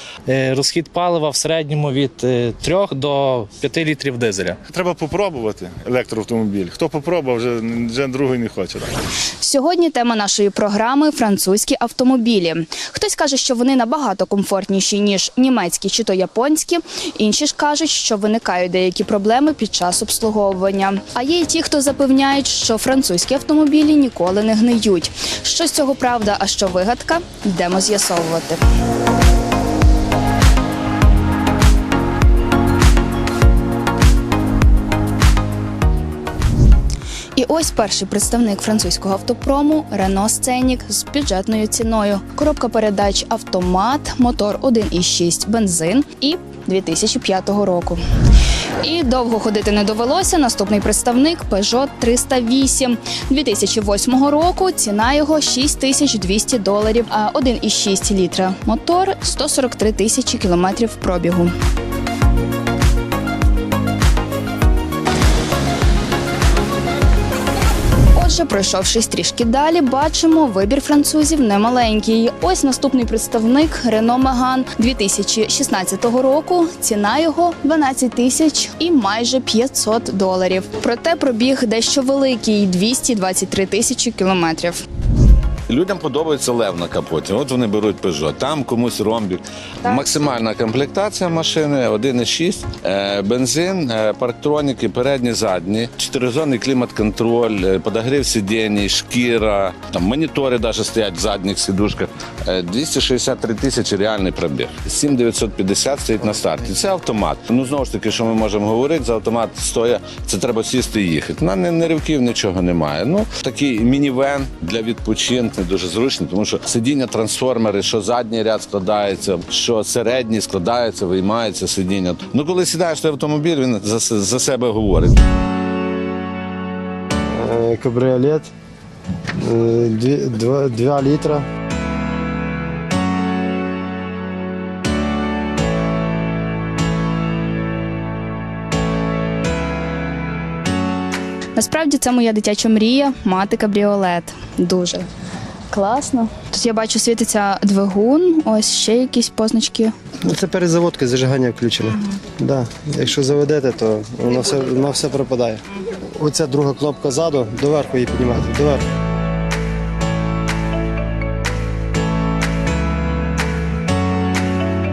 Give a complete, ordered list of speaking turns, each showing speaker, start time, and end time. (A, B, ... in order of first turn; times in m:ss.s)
0:00.3-0:04.6 A
0:04.7-0:08.9 B
0:09.4-0:28.6 C
0:37.4-0:48.0 C
0:48.8-1:01.5 C
1:08.2-1:24.8 C
1:25.7-2:05.2 D
1:29.8-1:30.2 C
2:07.3-2:08.5 E
2:09.4-2:11.5 E
2:21.6-2:25.1 C
2:25.7-2:29.9 C
2:30.2-2:35.6 E
2:36.2-2:38.8 E